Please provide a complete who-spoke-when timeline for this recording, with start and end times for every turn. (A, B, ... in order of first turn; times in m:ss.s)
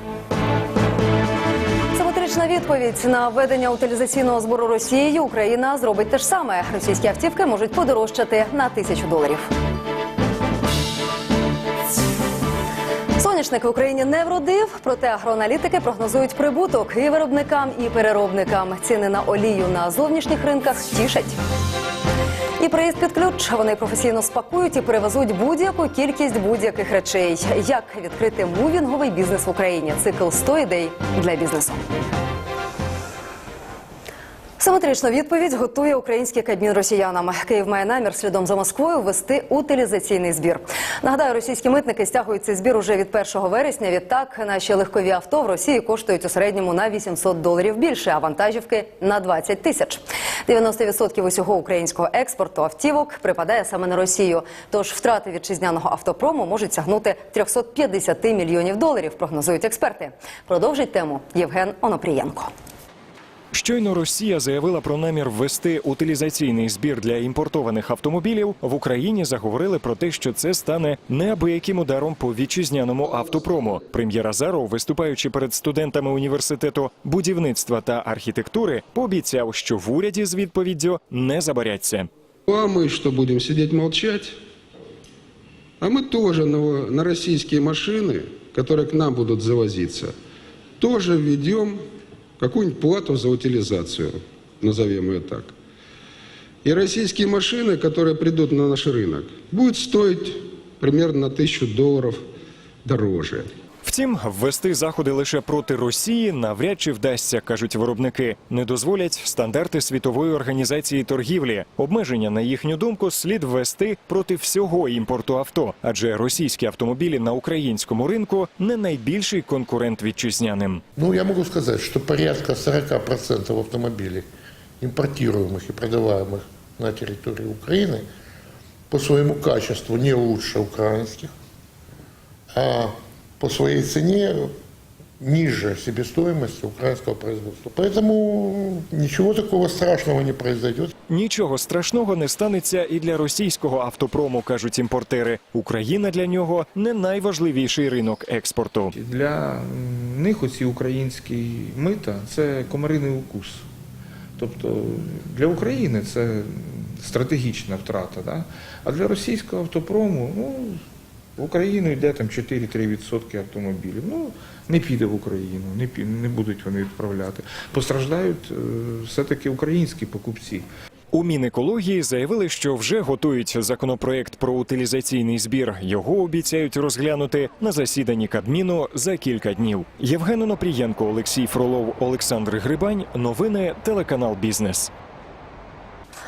0:01.9-0:09.5 A
0:13.2-0:21.4 A
0:22.6-0:31.8 A
0:34.6-1:02.5 A
1:03.5-1:22.1 B
1:22.5-1:24.4 C
1:25.8-1:30.2 C
1:30.8-1:31.8 C
1:32.4-1:35.5 C
1:36.6-1:42.2 C
1:42.9-1:43.5 C
1:43.8-2:00.8 B
2:01.0-2:04.3 D
2:04.8-2:08.1 D
2:08.9-2:11.3 D
2:12.5-2:14.5 D
2:15.2-2:20.9 D
2:21.1-2:28.9 B
2:28.9-2:33.7 E
2:34.4-2:40.8 E
2:41.4-2:50.7 E
2:51.1-3:04.9 B